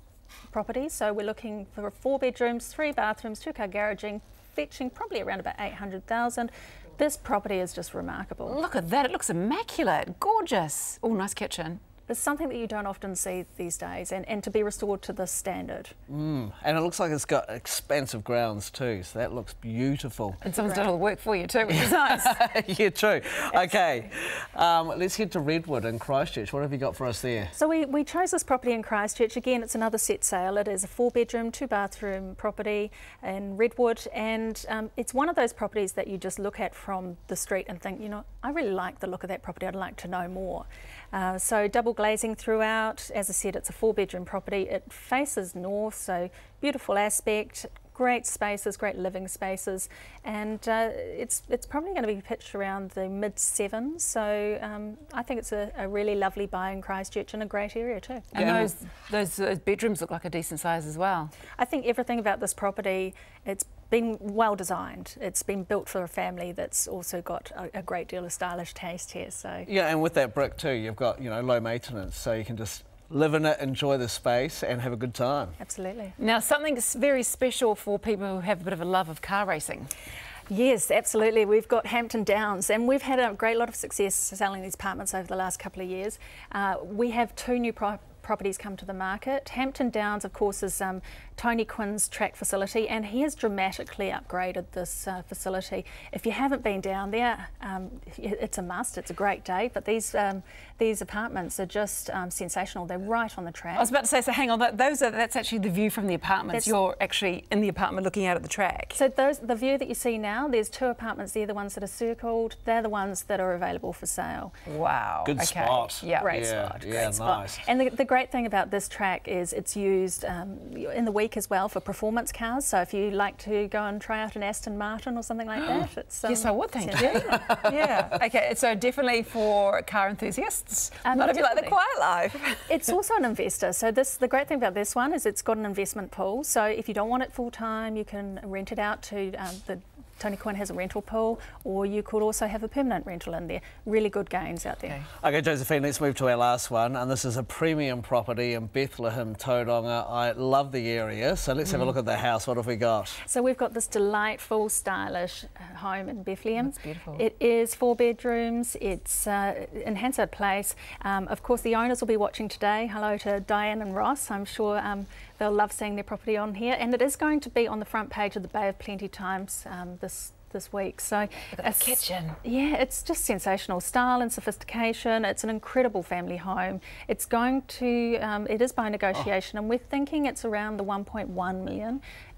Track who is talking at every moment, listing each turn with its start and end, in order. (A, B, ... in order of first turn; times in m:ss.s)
0:00.5-0:08.6 A
0:08.4-0:11.8 B
0:12.1-0:15.9 A
0:16.1-0:20.4 C
0:20.4-0:22.4 B
0:20.6-0:20.8 A
0:21.7-0:27.5 C
0:27.5-0:58.3 A
0:58.3-1:01.3 B
0:58.4-0:58.7 C
1:01.6-1:09.7 A
1:09.7-1:15.6 C
1:15.6-1:16.2 A
1:16.2-1:19.9 B
1:20.5-1:43.9 A
1:43.7-1:49.0 B
1:48.9-1:54.5 A
1:54.6-1:56.4 B
1:55.2-1:57.6 C
1:56.1-2:07.7 A
2:06.2-2:12.9 B
2:11.0-2:11.7 A
2:12.7-2:25.1 A
2:25.2-2:33.2 C
2:33.2-3:02.0 A
2:36.6-2:37.2 B
2:51.5-2:52.4 B